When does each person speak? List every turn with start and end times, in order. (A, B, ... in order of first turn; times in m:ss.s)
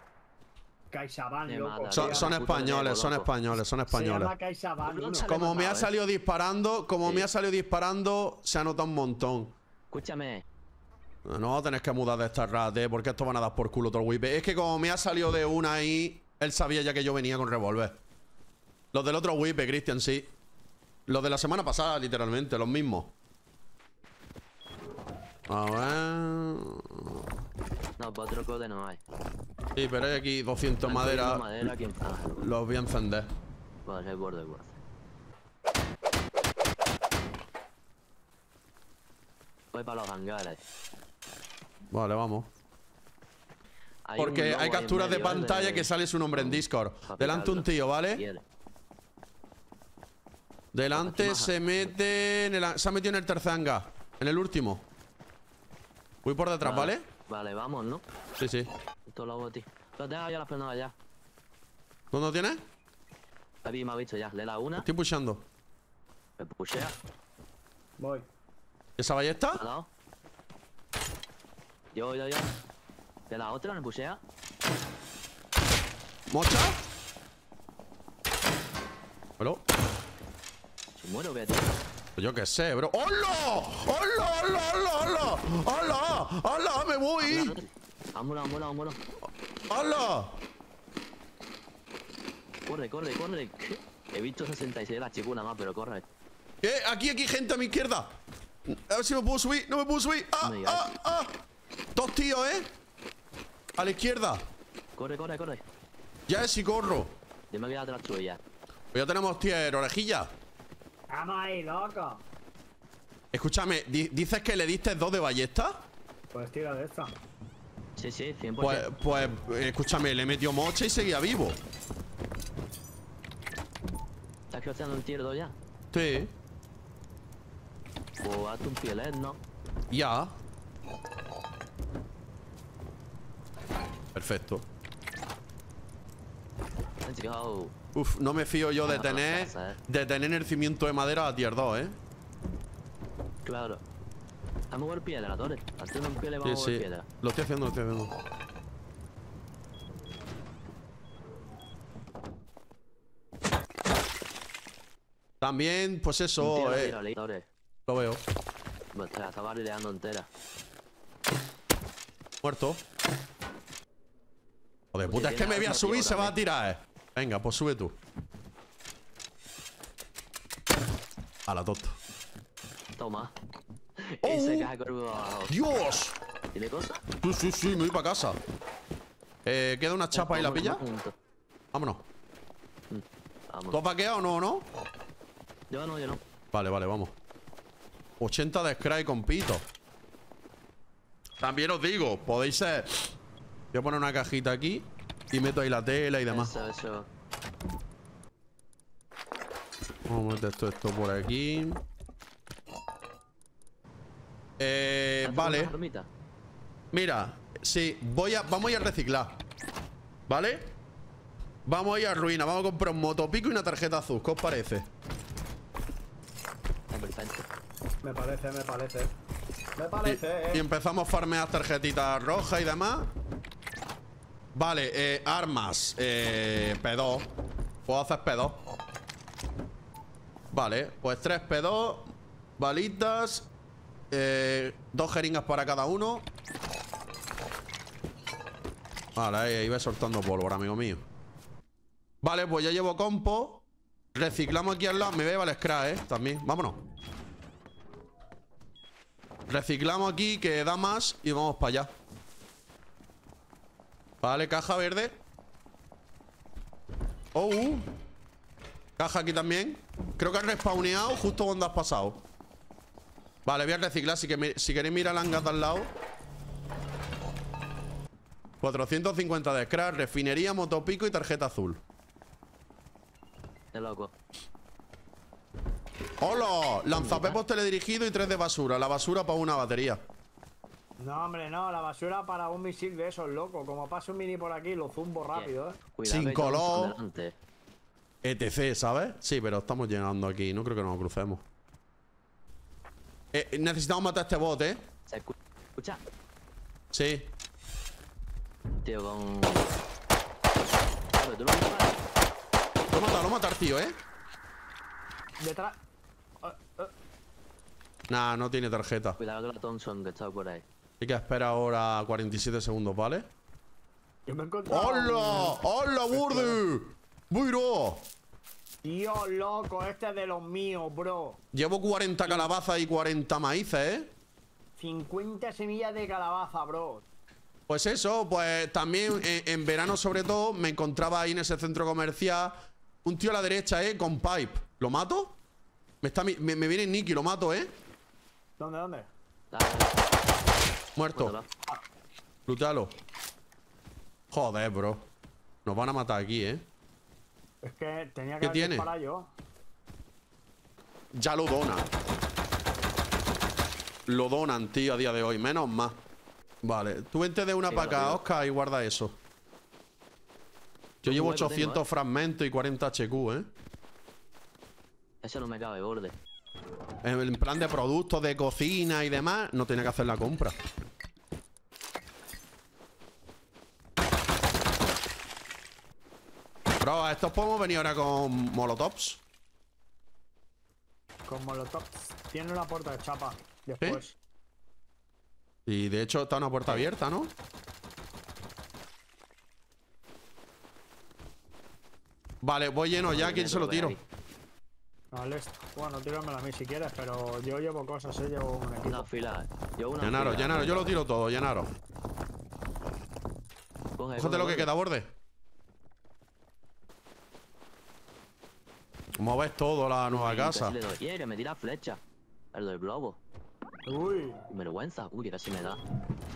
0:00.9-0:02.4 A
0:01.5-0:03.3 B
0:01.9-0:04.3 C
0:03.9-0:05.3 A
0:04.9-0:05.9 B
0:05.2-0:09.6 C
0:09.9-0:10.4 B
0:11.2-0:18.0 C
0:18.9-0:20.3 C
0:21.1-0:23.1 C
0:25.5-0:27.3 C
0:28.0-0:29.0 B
0:29.8-0:31.4 C
0:30.8-0:32.5 B
0:32.4-0:33.3 C
0:33.9-0:34.8 B
0:39.7-0:40.6 B
0:41.9-0:42.5 C
0:44.1-0:48.4 B
0:44.2-0:48.2 C
0:50.7-0:54.9 C
0:50.9-0:51.9 B
0:56.2-0:57.1 C
0:56.6-0:58.0 B
0:58.4-0:58.7 C
0:59.1-1:00.9 B
1:02.1-1:02.6 C
1:03.6-1:04.9 B
1:04.8-1:05.5 C
1:06.4-1:07.0 B
1:08.0-1:08.3 A
1:09.0-1:09.6 C
1:09.6-1:09.9 B
1:11.9-1:12.5 B
1:13.3-1:14.2 B
1:16.3-1:16.8 C
1:21.0-1:21.8 B
1:22.2-1:27.6 C
1:27.2-1:29.0 B
1:29.7-1:30.4 C
1:32.7-1:36.1 B
1:36.6-1:41.4 C
1:40.4-1:40.9 B
1:42.0-1:42.7 C
1:43.8-1:44.5 C
1:45.0-1:45.6 B
1:46.3-1:47.2 C
1:47.5-1:48.4 B
1:48.9-1:50.3 C
1:51.1-1:52.2 A
1:53.3-1:55.9 C
1:56.3-1:57.2 A
1:58.0-1:58.9 B
1:58.6-2:01.6 C
2:04.5-2:05.6 B
2:05.9-2:06.3 C
2:08.2-2:09.4 B
2:09.9-2:10.4 C
2:14.1-2:14.7 C
2:17.0-2:17.7 B
2:18.0-2:22.0 C
2:18.9-2:19.8 B
2:23.4-2:23.8 B
2:24.7-2:27.1 B
2:26.4-2:28.2 C
2:35.4-2:37.0 C
2:36.4-2:37.5 B
2:37.9-2:38.2 C
2:38.9-2:40.3 B
2:42.4-2:42.8 C
2:44.9-2:48.0 C
2:45.1-2:46.4 B
2:51.5-2:52.0 C
2:53.0-2:53.3 B
2:54.0-2:55.5 B
2:54.2-2:54.7 C
2:55.5-2:56.2 C
2:56.5-2:57.0 B
2:57.2-2:58.4 C
2:59.4-3:00.8 C
3:00.1-3:01.1 B
3:01.7-3:02.0 C
3:02.9-3:03.8 B
3:03.7-3:04.7 C
3:05.7-3:06.2 B
3:06.5-3:07.2 C
3:08.2-3:09.7 C
3:11.4-3:13.1 C
3:13.7-3:16.6 C
3:16.3-3:17.1 B
3:20.1-3:21.8 C
3:24.6-3:25.7 C
3:25.2-3:26.1 B
3:26.9-3:29.4 C
3:30.3-3:30.8 C
3:31.7-3:34.9 C
3:36.9-3:37.5 B
3:38.0-3:39.1 A
3:39.8-3:40.6 A
3:40.0-3:43.1 C
3:44.5-3:47.3 C
3:47.8-3:48.6 C
3:50.5-3:53.5 C
3:54.1-3:56.3 C
3:59.2-4:01.1 C
4:02.2-4:06.8 C
4:09.5-4:12.0 C
4:14.2-4:15.2 C
4:17.3-4:17.9 C
4:19.0-4:22.2 C
4:23.4-4:25.9 C
4:28.6-4:31.8 C
4:33.7-4:34.1 B
4:36.2-4:40.1 C
4:37.0-4:37.4 B
4:41.0-4:45.8 A
4:45.3-4:47.4 B
4:46.1-4:47.0 C
4:48.2-4:51.4 C
4:53.3-4:54.9 C
4:55.1-4:56.0 B
4:56.9-4:57.3 C
4:58.8-4:59.7 B
5:01.1-5:02.0 B
5:02.9-5:04.0 C
5:05.4-5:05.8 A
5:06.4-5:06.9 A
5:08.1-5:09.2 C
5:09.2-5:10.6 B
5:11.0-5:13.3 C
5:14.3-5:16.6 A
5:14.7-5:18.1 C
5:18.8-5:21.4 A
5:21.5-5:24.1 C
5:24.8-5:27.1 A
5:27.7-5:35.4 C
5:36.0-5:37.8 C
5:38.6-5:39.1 A
5:39.5-5:40.0 B
5:41.0-5:41.3 C
5:41.2-5:41.5 B
5:42.5-5:42.9 C
5:44.3-5:45.1 C
5:45.6-5:46.7 C
5:47.6-5:49.3 A
5:48.4-5:48.9 C
5:51.1-5:51.9 C
5:54.1-5:56.0 C
5:56.6-5:59.2 C
5:57.7-5:58.2 B
6:01.0-6:03.5 C
6:01.0-6:01.8 B
6:05.2-6:06.2 B
6:07.0-6:10.6 C
6:16.8-6:19.2 C
6:21.3-6:24.2 A
6:25.7-6:27.3 C
6:32.4-6:34.0 C
6:33.1-6:34.0 B
6:35.1-6:39.0 A
6:38.8-6:41.0 B
6:40.0-6:41.7 C
6:44.0-6:44.7 B
6:44.2-6:45.1 C
6:49.2-6:50.8 C
6:50.1-6:52.0 B
6:52.5-6:53.2 B
6:53.9-6:54.4 A
6:54.5-6:55.8 B